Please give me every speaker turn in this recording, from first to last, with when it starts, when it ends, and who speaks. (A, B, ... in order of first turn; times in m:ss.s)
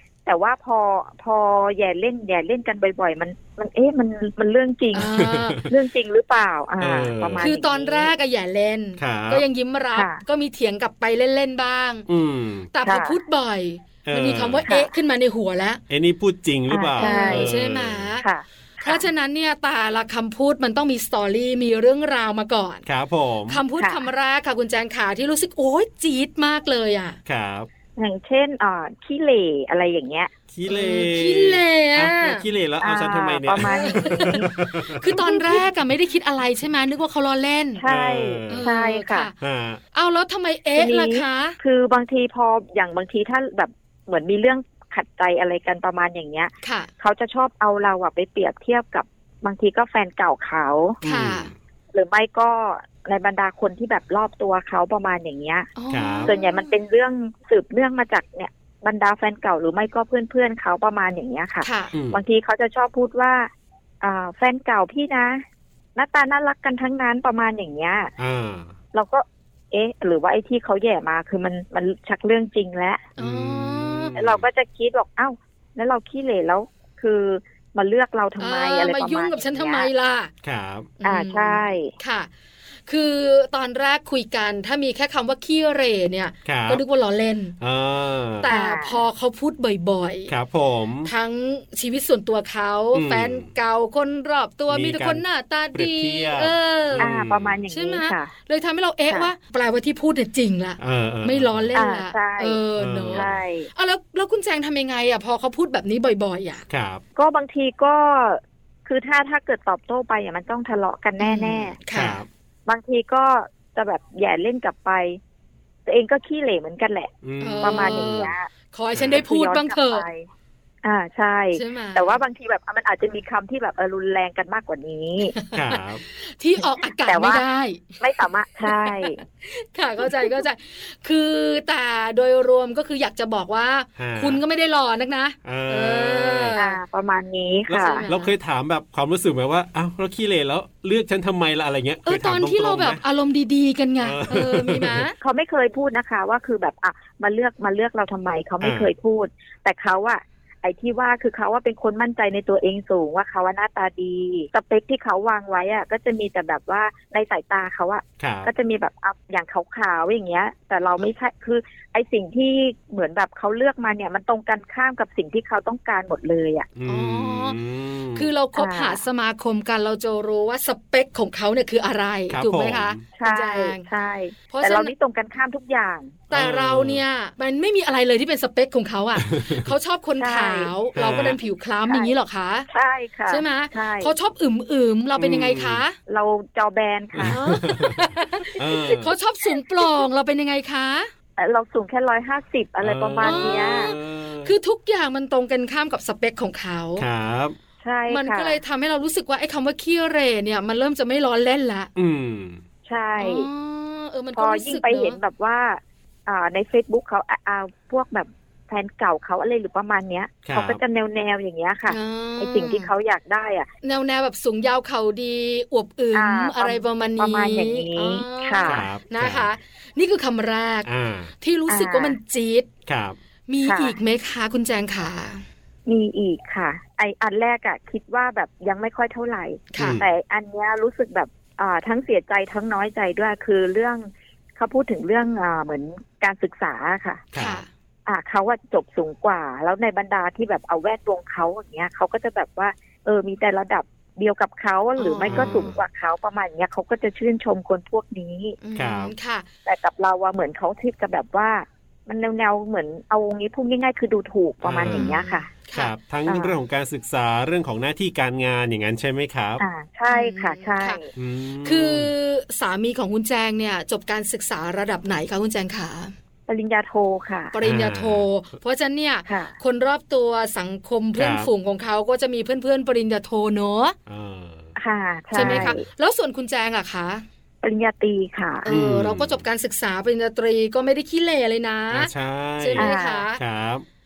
0:00.2-0:08.1 A
0:04.9-0:05.6 B
0:05.0-0:05.7 C
0:06.8-0:07.5 C
0:07.4-0:12.1 B
0:09.0-0:09.4 C
0:09.9-0:10.2 A
0:12.1-0:12.7 C
0:12.7-0:15.8 B
0:12.8-0:13.2 A
0:14.0-0:14.6 C
0:15.9-0:18.1 C
0:16.7-0:17.5 A
0:17.0-0:18.2 B
0:18.2-0:19.0 A
0:18.8-0:22.8 B
0:22.8-0:23.6 C
0:23.5-0:27.2 B
0:23.8-0:24.0 A
0:27.2-0:27.7 C
0:28.0-0:30.3 A
0:30.5-0:35.2 C
0:30.7-0:32.4 B
0:32.8-0:35.6 A
0:33.6-0:37.8 B
0:37.8-0:39.3 A
0:37.8-0:38.7 C
0:38.5-0:39.3 B
0:39.4-0:39.8 C
0:39.9-0:41.6 B
0:40.8-0:51.0 A
0:46.6-0:46.9 B
0:51.0-0:51.5 B
0:51.0-0:51.5 C
0:51.9-0:55.7 A
0:55.8-0:56.7 B
0:55.9-0:56.3 C
0:56.2-1:03.5 A
1:01.6-1:01.9 B
1:01.9-1:02.2 C
1:04.0-1:05.4 A
1:05.9-1:08.1 A
1:08.2-1:08.7 C
1:08.9-1:13.0 A
1:13.2-1:14.2 B
1:13.2-1:14.5 C
1:14.2-1:19.9 A
1:18.4-1:20.3 B
1:20.4-1:20.9 C
1:21.0-1:22.3 B
1:21.0-1:21.9 A
1:22.8-1:27.6 B
1:26.4-1:26.8 C
1:27.6-1:28.5 C
1:28.4-1:30.3 B
1:28.4-1:29.0 A
1:30.3-1:31.1 C
1:31.0-1:37.1 B
1:32.9-1:33.5 C
1:34.7-1:37.6 C
1:37.0-1:38.3 A
1:37.7-1:46.6 B
1:40.8-1:41.8 C
1:41.7-1:42.6 A
1:42.8-1:43.4 C
1:43.1-1:43.7 A
1:46.7-1:47.0 C
1:47.2-1:51.8 A
1:51.2-1:52.2 B
1:51.9-1:52.3 C
1:52.6-1:55.2 A
1:55.8-1:58.5 A
1:57.2-1:58.3 C
1:57.4-2:00.0 B
1:58.9-1:59.2 C
1:59.0-2:00.3 A
2:00.8-2:05.4 A
2:01.5-2:02.2 B
2:05.3-2:08.0 B
2:05.5-2:06.0 C
2:06.8-2:07.4 A
2:08.0-2:09.2 A
2:08.6-2:16.8 B
2:10.0-2:10.4 A
2:14.0-2:14.4 C
2:15.4-2:16.6 C
2:16.6-2:18.0 A
2:17.7-2:23.0 C
2:17.8-2:18.3 B
2:22.0-2:25.2 B
2:24.0-2:25.0 C
2:25.2-2:46.7 A
2:28.6-2:28.9 C
2:38.2-2:38.5 C
2:46.8-2:48.3 C
2:46.8-2:47.6 B
2:48.1-2:53.8 B
2:48.5-2:49.0 A
2:52.3-2:53.0 C
2:53.2-2:56.2 A
2:54.5-2:54.9 B
2:56.3-3:02.7 B
2:56.3-2:57.0 C
2:59.2-2:59.7 C
3:00.2-3:00.7 A
3:00.9-3:01.4 C
3:02.7-3:04.1 A
3:03.3-3:06.0 B
3:05.2-3:05.8 C
3:06.1-3:07.4 A
3:07.1-3:08.0 C
3:07.3-3:11.1 B
3:08.6-3:09.1 C
3:11.4-3:13.9 A
3:12.8-3:14.5 C
3:13.2-3:17.0 B
3:17.0-3:17.6 C
3:17.8-3:18.6 A
3:18.1-3:21.9 B
3:22.0-3:22.6 C
3:22.8-3:23.5 A
3:23.2-3:25.2 B
3:24.3-3:33.7 A
3:30.4-3:30.8 C
3:31.9-3:32.9 B
3:33.8-3:40.9 B
3:36.1-3:38.8 A
3:38.6-3:39.5 C
3:40.8-3:41.3 C
3:41.4-3:42.7 B
3:41.7-3:42.2 A
3:42.9-3:43.2 C
3:43.5-3:45.4 B
3:43.6-3:43.9 A
3:45.8-3:57.3 A
3:49.7-3:50.0 B
3:49.8-3:50.1 C
3:57.3-3:57.6 C
3:57.4-3:57.7 B
3:58.0-4:08.6 A
4:05.0-4:05.8 B
4:05.3-4:05.8 C
4:08.6-4:09.5 B
4:08.8-4:09.1 C
4:09.6-4:15.5 A
4:14.6-4:15.2 C
4:14.8-4:15.9 B
4:15.7-4:19.6 C
4:16.2-4:16.5 A
4:19.6-4:21.1 A
4:20.1-4:21.0 B
4:21.2-4:22.1 C
4:21.6-4:26.1 B
4:26.5-4:27.5 A
4:27.5-4:34.0 B
4:27.6-4:28.2 C
4:29.3-4:29.5 A
4:31.2-4:31.5 C
4:34.1-4:34.7 C
4:34.8-4:35.8 A
4:35.3-4:37.2 B
4:35.4-4:35.8 C
4:37.6-4:38.7 A
4:38.6-4:43.4 B
4:38.7-4:39.4 C
4:41.9-4:43.8 C
4:42.8-4:43.2 A